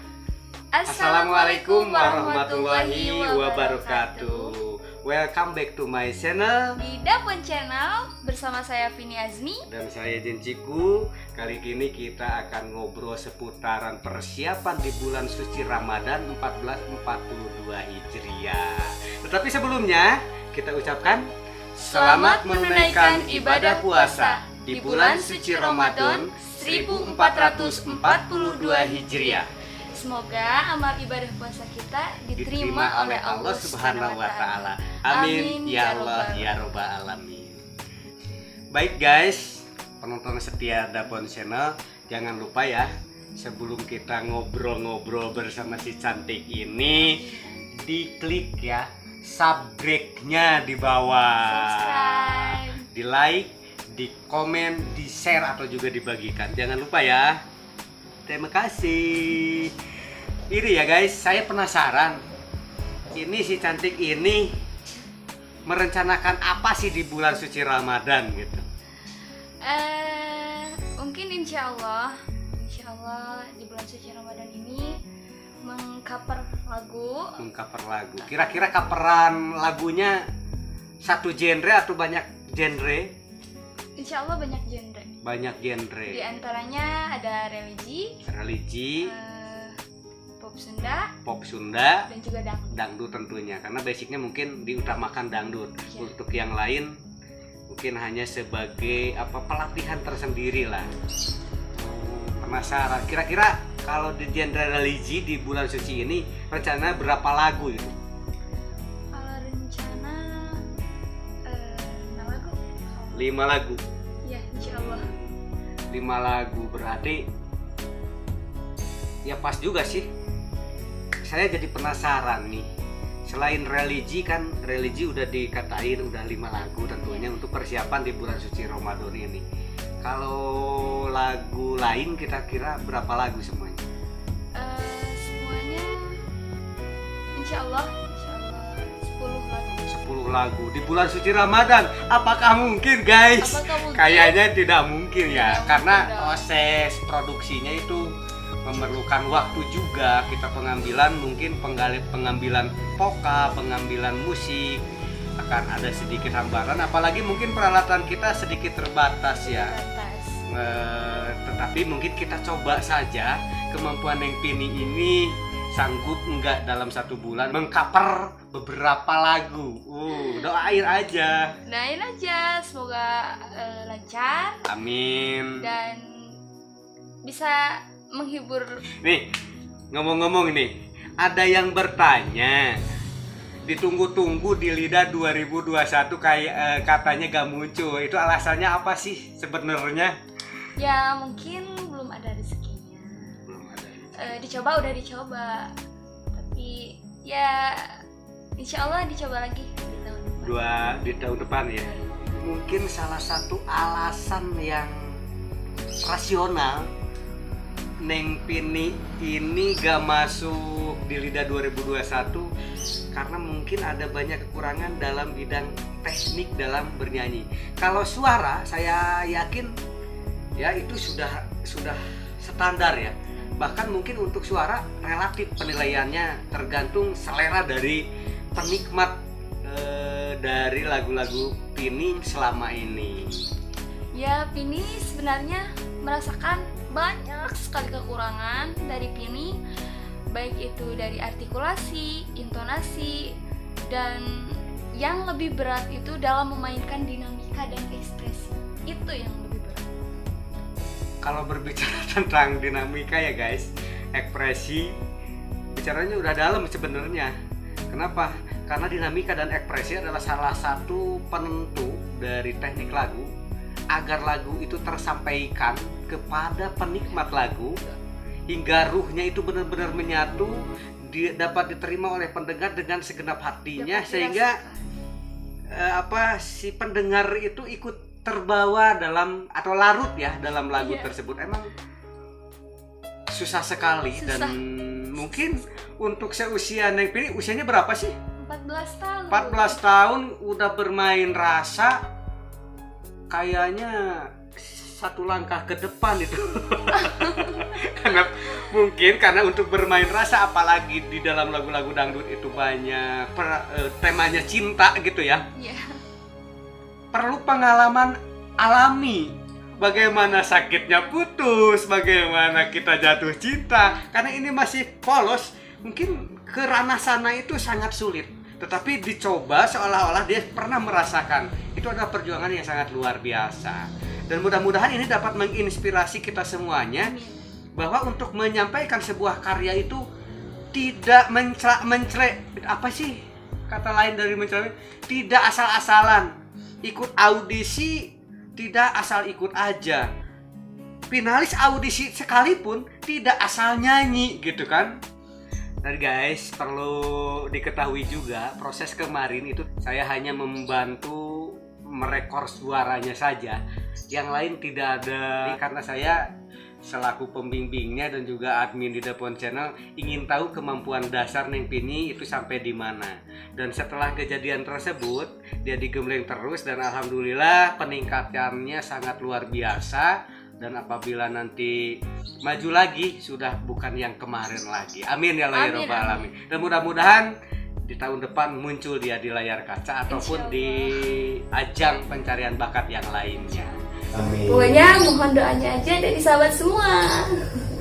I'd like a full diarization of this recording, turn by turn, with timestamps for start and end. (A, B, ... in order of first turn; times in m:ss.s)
0:00.7-0:04.6 A
0:00.9-0:06.8 B
0:06.8-0:09.6 A
0:09.6-0:21.2 B
0:21.8-0:29.5 B
0:21.9-0:29.4 A
0:30.0-0:36.6 A
0:32.4-0:37.6 B
0:38.7-0:47.2 B
0:47.0-0:47.7 A
0:47.7-0:57.4 B
0:51.5-0:52.9 A
0:58.3-0:59.7 B
1:00.5-1:02.2 B
1:03.2-1:04.6 B
1:05.6-1:08.6 B
1:09.6-1:15.0 A
1:15.6-1:17.4 A
1:17.4-1:20.2 B
1:18.2-1:18.7 A
1:21.0-1:23.1 B
1:24.0-1:25.1 A
1:25.2-1:26.3 B
1:26.1-1:28.2 A
1:28.2-1:29.1 B
1:29.0-1:29.8 A
1:30.4-1:31.1 A
1:31.2-1:32.1 B
1:32.1-1:32.7 A
1:32.7-1:36.9 B
1:35.9-1:36.2 A
1:37.7-1:40.9 B
1:41.8-1:48.0 B
1:49.1-1:50.6 A
1:51.5-1:53.3 A
1:53.1-1:53.8 B
1:54.2-1:55.1 A
1:54.6-1:55.3 B
1:55.9-1:57.2 B
1:59.2-2:00.1 B
2:01.2-2:02.6 B
2:03.3-2:09.4 B
2:07.0-2:07.3 A
2:10.0-2:13.8 B
2:14.6-2:16.1 A
2:17.3-2:19.9 A
2:19.9-2:28.0 B
2:23.4-2:24.4 A
2:25.3-2:26.4 A
2:28.6-2:34.8 B
2:35.4-2:39.8 B
2:39.4-2:40.4 A
2:40.5-2:51.5 B
2:50.2-2:50.4 A
2:51.6-2:54.7 A
2:54.7-2:55.6 B
2:55.6-2:56.0 A
2:57.2-2:58.8 A
2:59.0-2:59.2 B
2:59.9-3:02.8 B
3:03.6-3:10.1 B
3:10.8-3:13.4 A
3:13.4-3:14.4 B
3:14.1-3:15.7 A
3:16.3-3:18.0 A
3:18.6-3:22.1 A
3:20.4-3:25.2 B
3:26.0-3:26.9 B
3:28.0-3:32.5 B
3:33.1-3:39.7 B
3:40.6-3:53.4 B
3:54.1-3:59.6 A
4:00.3-4:03.4 A
4:03.9-4:09.9 A
4:11.2-4:14.9 B
4:15.7-4:17.3 B
4:17.9-4:23.3 B
4:23.9-4:27.8 B
4:27.1-4:28.0 A
4:28.5-4:34.6 B
4:33.8-4:34.9 A
4:35.7-4:41.7 B
4:40.8-4:41.1 A
4:43.3-4:48.1 B
4:44.1-4:44.6 A
4:48.4-4:49.8 A
4:49.3-4:52.0 B
4:53.3-5:05.4 B
4:56.9-4:57.7 A
5:05.5-5:06.0 A
5:07.1-5:27.1 B
5:09.8-5:10.7 A
5:27.0-5:27.5 A
5:27.8-5:30.0 B
5:30.7-5:33.2 B
5:33.7-5:36.3 B
5:36.8-5:40.1 B
5:41.1-5:45.0 B
5:45.8-5:53.6 B
5:54.1-5:56.2 B
5:56.8-6:11.8 B
6:12.4-6:17.3 B
6:15.5-6:16.3 A
6:17.9-6:25.1 B
6:20.1-6:21.1 A
6:23.4-6:23.8 A
6:24.4-6:27.6 A